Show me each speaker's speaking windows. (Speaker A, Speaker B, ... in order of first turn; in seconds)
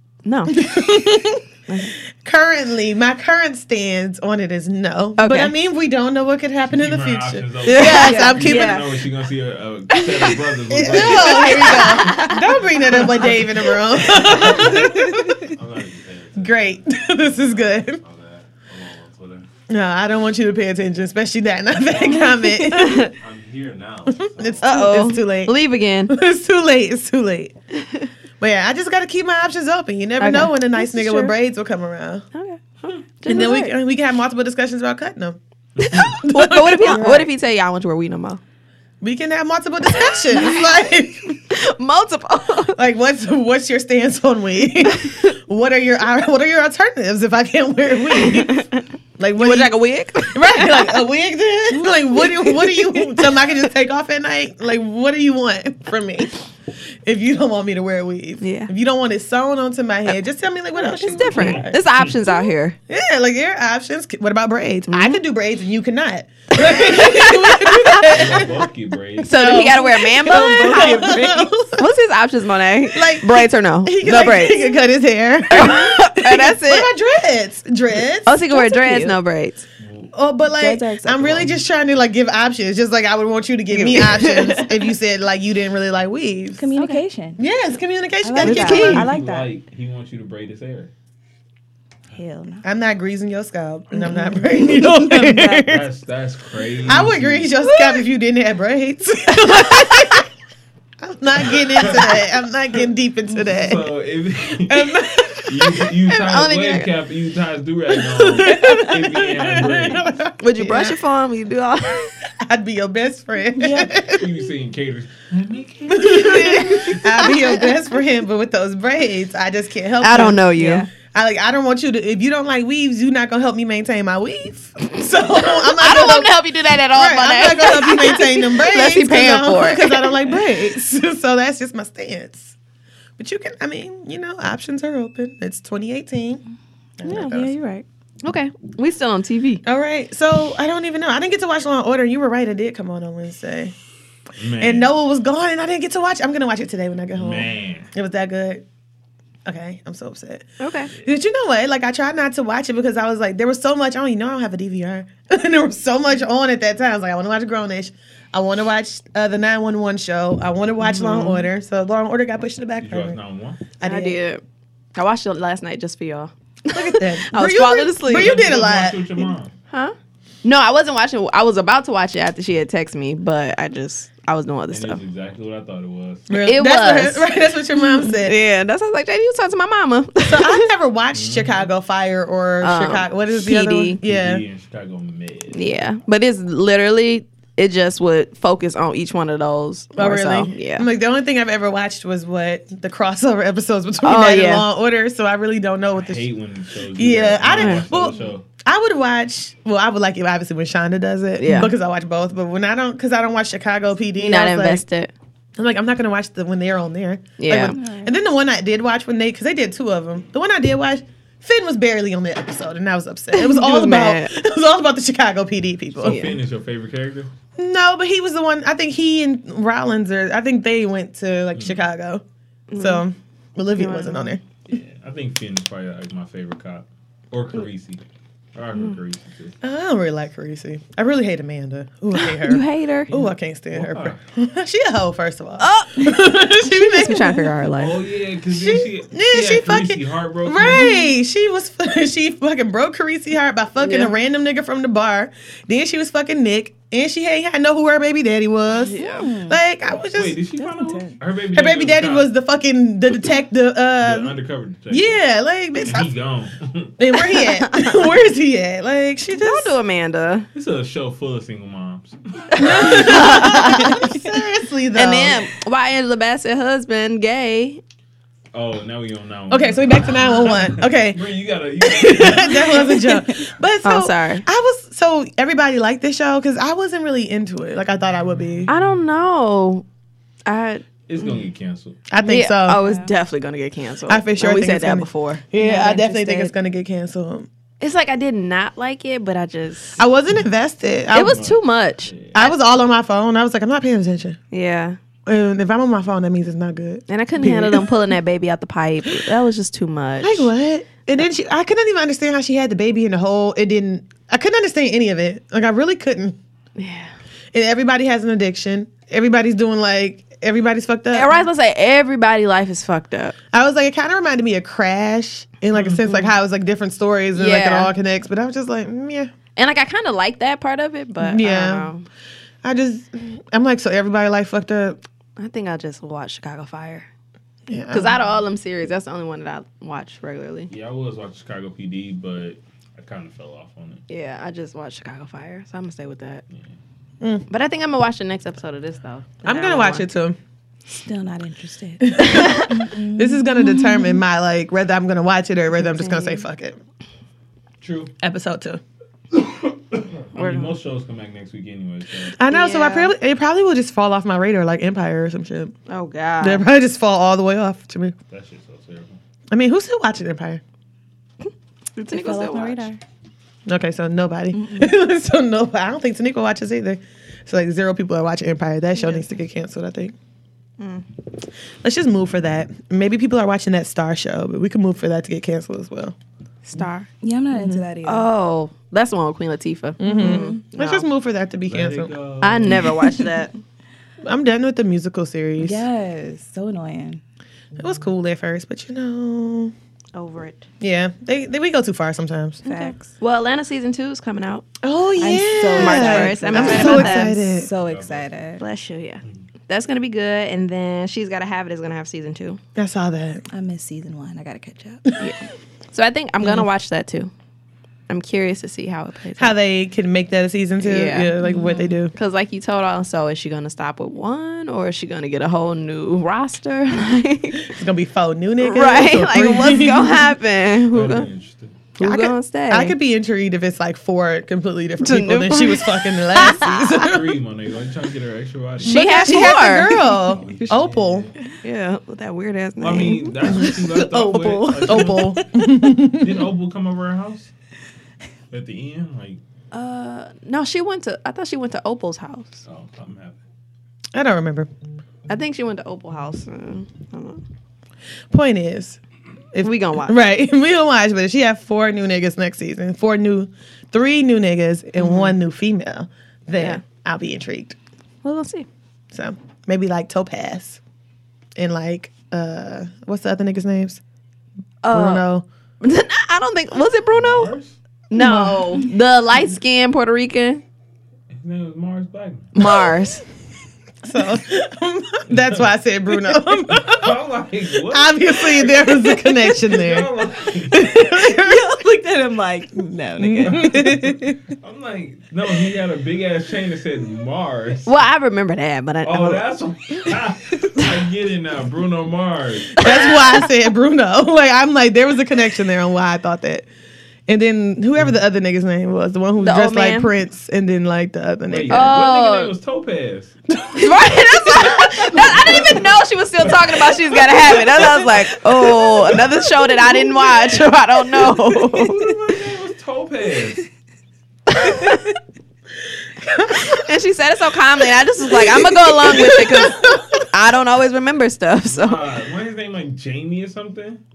Speaker A: 0.2-0.8, 1.7-1.9, 5.2-5.5, 7.7-8.8, 9.9-10.3, 10.9-13.1, 22.6-23.1, 24.6-26.1, 27.8-28.1, 32.3-33.8, 35.8-38.4, 40.0-41.0, 41.5-42.8, 45.0-45.2, 48.1-48.9, 49.4-51.0, 52.2-53.3, 58.4-58.7, 60.8-62.8, 64.9-65.2, 66.7-68.1, 69.2-74.8, 75.5-76.9, 78.3-79.6, 83.7-84.8, 86.8-87.0, 88.4-89.1, 97.6-98.0, 99.4-100.2, 106.2-106.9, 110.4-112.2, 116.6-117.4, 120.0-120.9, 125.4-130.4, 137.1-137.6, 138.2-139.6, 150.6-150.9, 160.8-161.4, 163.8-164.4, 164.9-168.4, 169.7-175.0, 176.4-177.3, 178.0-180.7, 182.6-184.0, 185.5-190.9, 194.0-194.7, 197.5-197.9, 201.4-201.7, 204.2-205.1, 207.4-207.8, 213.3-214.3, 216.1-216.4, 222.7-223.1, 223.8-224.4, 232.2-233.1, 235.6-236.2, 236.8-238.0, 243.8-244.1, 248.9-249.3, 257.4-258.1, 259.4-260.5, 262.5-264.2, 264.9-267.8, 273.8-274.4, 278.7-279.9, 280.5-281.4, 282.2-285.4, 287.8-290.0, 291.1-292.6, 294.5-295.0, 297.1-300.5, 306.8-307.1, 311.1-313.4, 317.3-317.9, 319.6-322.1, 325.4-327.1, 327.9-330.7, 334.1-336.4, 337.5-340.1, 350.4-350.8, 352.5-353.1, 355.9-356.7, 361.4-362.9, 370.8-371.1, 376.6-381.1, 382.4-383.5, 390.1-390.6, 392.6-394.7, 395.8-397.4, 398.6-402.6, 405.9-407.3, 408.1-409.5, 410.8-417.7, 418.6-421.3, 422.0-422.9, 425.0-427.1, 428.8-430.1, 431.6-435.1, 439.7-442.6, 445.3-447.4, 449.6-450.2, 455.0-455.3, 458.2-458.7, 464.8-465.2, 465.8-467.5, 468.1-470.6, 472.6-473.2, 487.9-489.4, 492.9-493.2, 499.4-500.1, 501.7-502.5, 503.8-512.2, 514.5-515.1, 516.7-522.1
Speaker B: 0.5-1.4, 2.2-8.8, 10.7-15.5, 16.4-18.0, 19.7-23.1, 24.1-25.6, 26.1-27.5, 28.4-32.2, 33.3-37.3, 39.0-41.4, 42.8-48.7, 49.2-49.7, 50.3-56.3, 57.0-61.8, 62.9-68.6, 69.2-71.8, 72.9-78.3, 80.1-86.6, 87.4-89.1, 92.6-95.8, 96.9-100.3, 101.0-103.9, 104.7-105.9, 108.1-111.0, 112.4-114.3, 115.9-132.6, 133.2-136.4, 137.0-137.6, 139.6-143.7, 144.6-148.6, 149.4-163.2, 163.8-164.2, 166.7-169.1, 176.3-178.3, 180.2-184.4, 190.0-196.3, 196.9-204.8, 205.6-216.3, 217.6-222.2, 222.8-224.4, 229.6-237.5, 238.5-250.4, 251.5-254.3, 254.9-256.1, 257.0-259.8, 262.6-265.4, 269.5-271.2, 271.8-278.7, 282.1-282.8, 284.1-287.5, 290.0-291.4, 292.3-294.4, 295.3-297.9, 300.2-306.4, 307.5-311.4, 313.5-319.3, 321.2-321.9, 322.6-325.0, 327.7-328.2, 339.4-340.4, 342.1-346.8, 348.2-348.8, 352.4-355.7, 356.4-358.1, 359.5-360.6, 363.7-370.1, 371.8-376.2, 380.0-382.1, 384.2-385.8, 387.8-389.7, 390.8-392.6, 394.8-397.7, 402.8-403.4, 409.4-412.1, 417.6-420.3, 422.0-427.2, 428.9-431.3, 434.9-436.4, 444.1-444.7, 448.3-449.0, 449.5-457.8, 459.1-460.8, 461.6-464.0, 464.9-465.4, 474.0-477.1, 477.9-480.1, 480.7-481.7, 483.2-484.3, 492.8-496.7, 497.3-501.9, 503.6-505.0, 507.7-508.0, 516.2-516.9, 518.2-520.2
Speaker C: 6.7-19.5, 21.8-22.3, 23.1-24.7, 61.4-62.1, 68.1-69.6, 79.8-80.1, 88.8-90.9, 95.7-97.5, 101.4-102.3, 103.3-110.2, 114.0-117.2, 144.4-144.9, 147.2-147.9, 162.8-163.6, 168.1-169.5, 174.7-176.3, 181.1-181.7, 184.0-185.9, 195.9-198.4, 215.9-217.3, 221.6-221.8, 224.7-229.6, 233.1-234.2, 237.8-240.9, 249.9-252.3, 254.0-255.2, 255.8-257.0, 260.5-263.4, 268.5-272.9, 278.4-279.1, 281.1-282.0, 291.1-292.5, 330.7-334.0, 347.8-348.1, 349.3-352.4, 358.3-359.2, 381.7-383.0, 397.8-398.3, 420.9-421.8, 427.0-429.0, 430.2-431.3, 432.8-435.5, 436.1-437.5, 438.5-439.4, 442.7-443.4, 467.1-467.8, 471.3-472.6, 475.3-475.7, 476.7-480.9, 483.5-488.0, 489.0-492.9, 501.5-503.4, 504.6-509.0, 511.8-513.7, 521.6-524.0
Speaker D: 7.9-8.8, 14.8-15.5, 22.1-23.0, 30.2-31.3, 70.2-71.1, 78.5-79.2, 80.5-81.5, 86.6-87.4, 88.2-89.5, 92.1-92.6, 93.9-95.7, 113.5-113.9, 120.6-120.9, 137.1-137.8, 201.5-201.7, 207.5-208.2, 248.8-249.6, 250.6-251.2, 282.8-283.1, 285.6-286.5, 340.9-344.2, 345.9-346.4, 362.1-363.0, 364.6-364.9, 377.2-378.3, 380.0-380.6, 385.6-387.2, 392.6-393.1, 395.2-398.6, 403.5-405.1, 411.4-411.8, 468.1-468.8, 481.0-484.1